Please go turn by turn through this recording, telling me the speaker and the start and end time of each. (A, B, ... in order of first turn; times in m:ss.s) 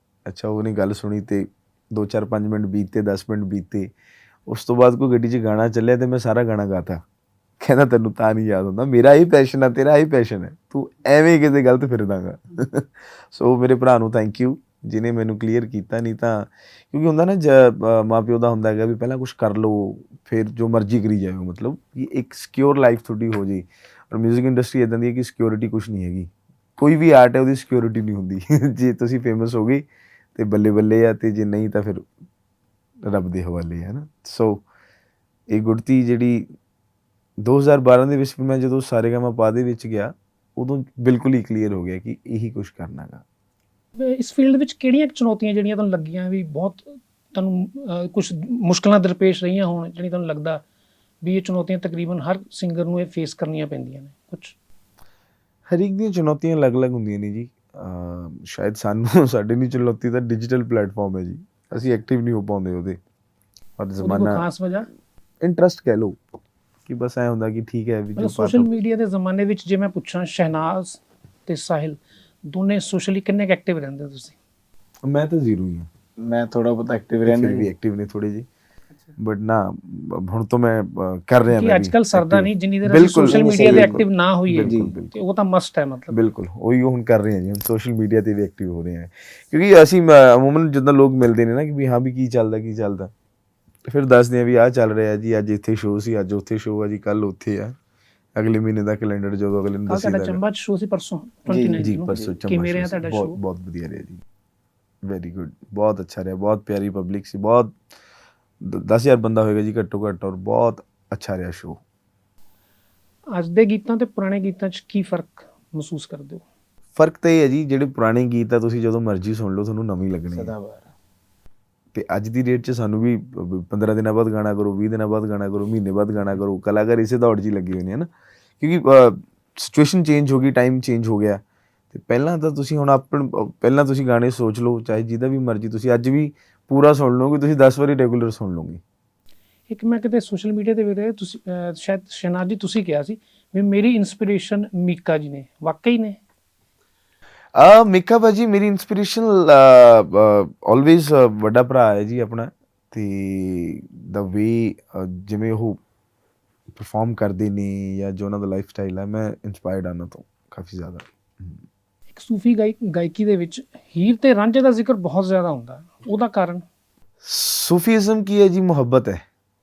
0:00.3-0:03.9 A
0:04.5-0:07.0 A
0:07.6-0:29.8 A
0:30.4-0:32.1 A
0:33.1-0:34.6 A
0:35.5-0:36.5 A
0:37.4-0:43.2 A
0:44.0-0:50.6 B
0:51.2-0:54.6 B
0:55.7-1:03.0 A
1:03.8-1:04.4 A
1:04.0-1:04.9 B
1:05.4-1:06.2 A
1:06.9-1:08.7 A
1:08.2-1:14.4 B
1:15.1-1:15.9 A
1:16.2-1:17.7 C
1:17.3-1:18.5 A
1:19.2-1:25.1 A
1:21.5-1:26.2 B
1:23.3-1:24.0 C
1:24.6-1:24.9 C
1:26.1-1:33.1 A
1:33.9-1:37.8 A
1:38.4-1:40.4 A
1:39.9-1:43.4 B
1:41.5-1:42.3 C
1:41.7-1:44.2 A
1:45.1-1:47.8 A
1:48.6-1:51.8 A
1:53.3-1:56.4 B
1:57.0-2:00.5 A
2:00.3-2:00.9 C
2:01.9-2:18.8 A
2:19.7-2:26.2 B
2:27.6-2:35.8 A
2:36.7-2:41.6 A
2:42.1-2:46.6 B
2:47.2-2:49.2 A